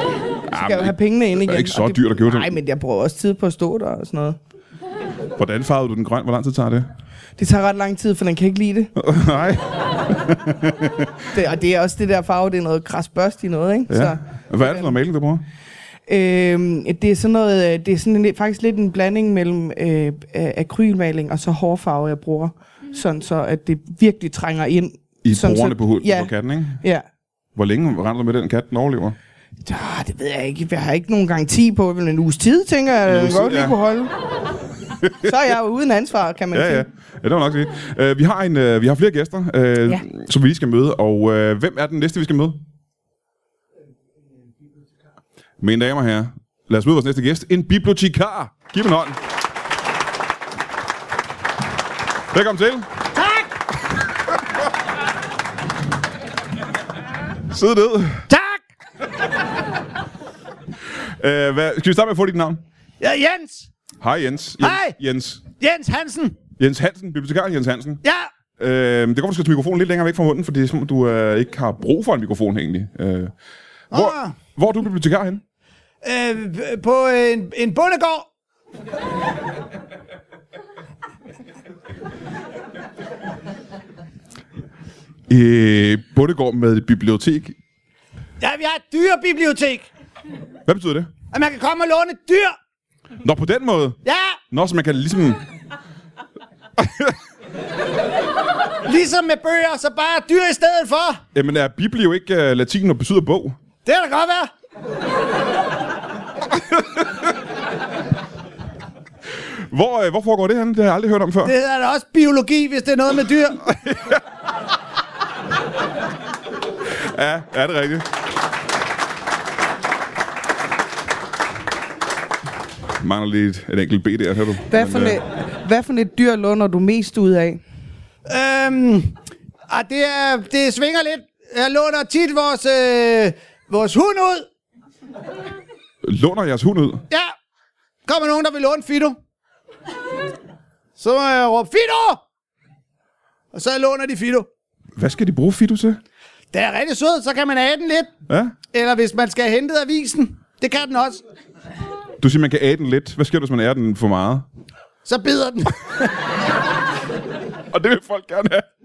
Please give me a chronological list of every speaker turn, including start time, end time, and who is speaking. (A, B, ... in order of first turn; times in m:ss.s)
0:00.5-0:02.6 A
0:00.5-0:04.4 B
0:05.4-0:06.9 A
0:07.4-0:08.9 B
0:09.0-0:11.3 A
0:11.3-0:14.9 B
0:13.9-0:15.4 A
0:16.1-0:27.0 B
0:25.2-0:26.8 A
0:27.5-0:29.2 A
0:29.6-0:34.1 B
0:33.0-0:33.8 A
0:35.0-0:35.3 A
0:35.2-0:36.8 B
0:36.5-0:42.6 A
0:45.6-0:49.2 A
0:52.3-0:52.9 A
0:53.1-0:53.5 C
0:57.5-0:58.3 A
0:58.3-0:58.6 C
1:01.0-1:02.6 A
1:03.0-1:03.7 C
1:04.0-1:05.4 A
1:04.6-1:04.9 C
1:05.5-1:06.4 C
1:06.6-1:08.0 A
1:08.0-1:08.3 C
1:08.6-1:13.3 A
1:13.9-1:14.3 C
1:13.9-1:15.4 A
1:16.0-1:18.3 C
1:25.3-1:27.6 A
1:28.4-1:29.9 C
1:30.6-1:31.1 A
1:31.3-1:32.6 C
1:33.2-1:34.0 A
1:34.0-1:34.4 C
1:34.5-1:35.4 A
1:36.8-1:37.2 A
1:38.8-1:41.2 C
1:41.3-1:43.6 A
1:43.8-1:44.5 C
1:49.5-1:51.5 A
1:51.4-1:53.6 C
1:53.6-1:54.2 A
1:56.8-1:58.1 A
2:03.0-2:05.2 A
2:04.7-2:07.6 B
2:08.3-2:09.1 C
2:09.7-2:14.5 C
2:16.0-2:17.0 A
2:18.0-2:19.2 C
2:21.0-2:22.2 C
2:23.5-2:24.5 C
2:25.0-2:26.0 A
2:26.5-2:28.1 C
2:28.3-2:28.6 A
2:28.7-2:31.2 C
2:32.2-2:34.4 A
2:35.0-2:36.0 C
2:37.7-2:38.6 A